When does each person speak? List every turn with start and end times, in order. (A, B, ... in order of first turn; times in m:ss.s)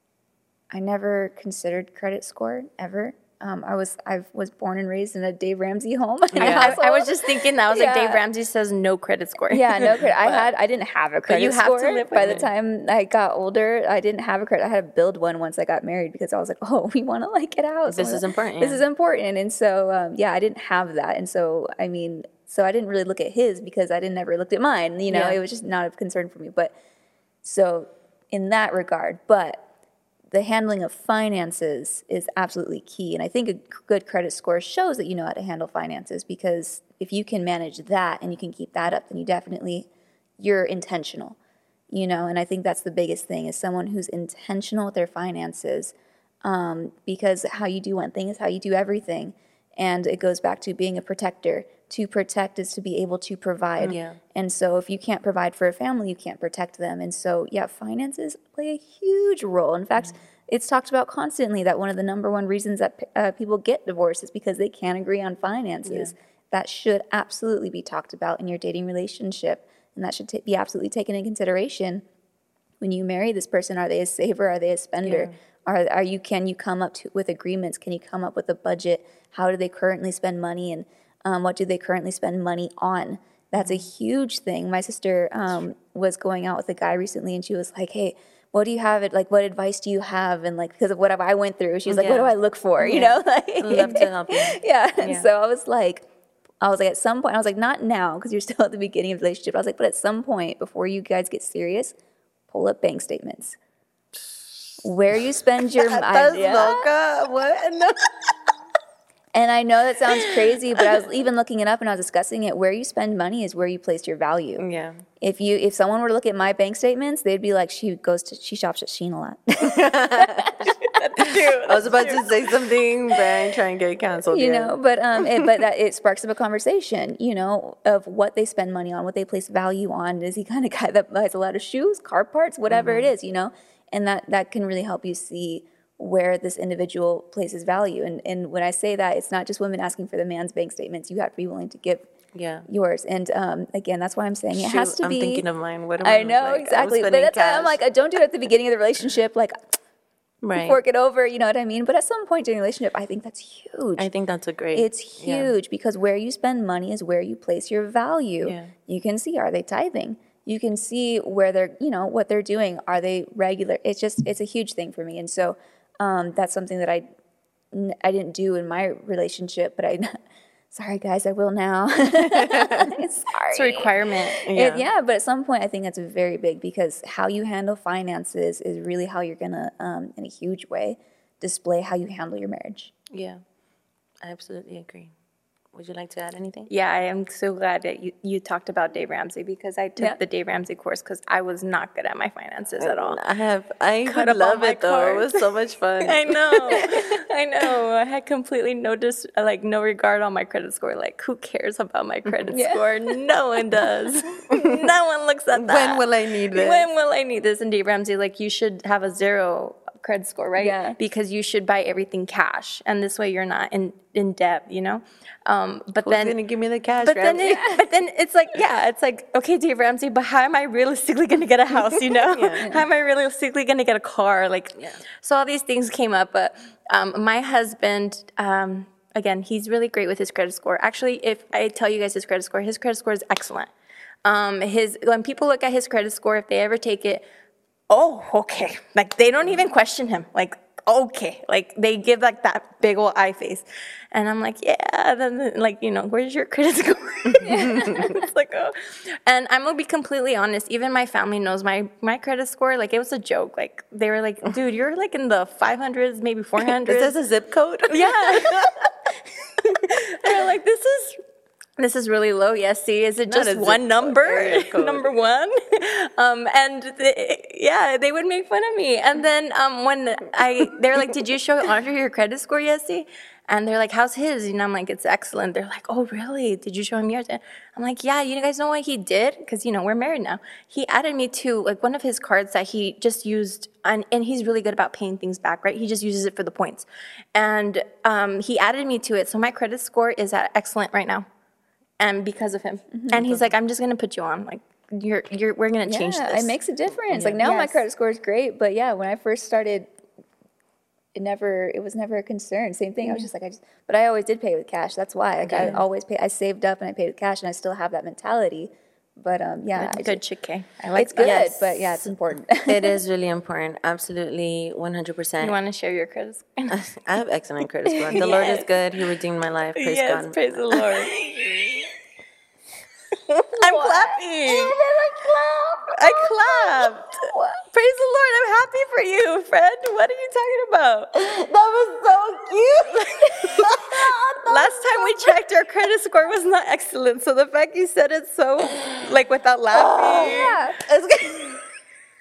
0:00.7-0:08.2 A
0:06.3-0:06.7 B
0:06.4-0:10.4 C
0:09.5-0:26.7 A
0:11.3-0:12.4 C
0:12.2-0:12.4 B
0:17.9-0:18.8 B
0:25.1-0:25.4 B
0:27.4-0:29.6 A
0:30.3-0:39.9 A
0:40.4-0:41.4 A
0:41.9-1:12.0 A
0:53.8-0:54.2 B
1:05.8-1:06.1 B
1:12.8-1:36.0 A
1:15.0-1:15.3 B
1:23.6-1:23.8 B
1:31.9-1:35.3 B
1:36.6-1:41.9 A
1:42.5-1:43.6 A
1:44.8-1:46.8 A
1:45.7-1:48.3 B
1:49.3-1:54.6 A
1:54.6-1:55.0 B
1:55.2-2:00.5 A
1:59.6-2:00.5 B
2:00.8-2:02.5 C
2:01.6-2:04.7 B
2:04.3-2:22.1 A
2:12.7-2:13.1 B
2:22.3-2:22.6 B
2:22.7-2:25.4 A
2:24.5-2:27.8 B
2:26.0-2:29.5 A
2:30.4-2:30.8 B
2:30.6-2:34.1 A
2:34.0-2:35.5 B
2:34.7-2:47.0 A
2:38.4-2:38.7 B
2:47.7-2:50.2 A
2:50.7-2:53.9 A
2:52.3-2:52.9 B
2:53.5-2:54.4 C
2:54.4-2:54.8 B
2:54.5-3:02.9 A
3:03.1-3:03.4 B
3:04.2-3:05.1 B
3:05.7-3:06.7 B
3:06.7-3:13.2 C
3:12.8-3:16.9 B
3:14.0-3:15.4 C
3:16.0-3:36.3 C
3:16.8-3:17.2 A
3:22.5-3:22.8 A
3:25.5-3:26.9 B
3:30.6-3:31.0 A
3:36.0-3:37.6 B
3:37.0-3:53.7 C
3:37.4-3:37.8 A
3:42.2-3:42.7 B
3:54.2-3:57.2 C
3:57.9-4:17.1 C
4:07.3-4:08.2 B
4:07.5-4:07.8 A
4:16.8-4:18.8 B
4:17.9-4:18.7 C
4:19.7-4:21.2 C
4:21.8-4:51.2 C
4:23.3-4:25.1 B
4:52.0-4:56.5 C
4:53.1-4:53.5 B
4:55.8-4:59.9 A
4:57.1-4:57.8 C
5:01.1-5:10.2 A
5:05.4-5:05.8 B
5:09.7-5:11.5 C
5:10.9-5:13.0 A
5:11.2-5:11.8 B
5:12.6-5:15.6 B
5:15.4-5:16.8 C
5:16.7-5:20.8 B
5:18.1-5:18.7 C
5:19.8-5:21.9 C
5:23.5-5:24.8 C
5:23.6-5:27.6 A
5:25.9-5:31.1 C
5:31.2-5:34.1 B
5:33.3-5:40.6 C
5:33.9-5:34.6 A
5:39.7-5:41.6 B
5:40.1-5:40.8 A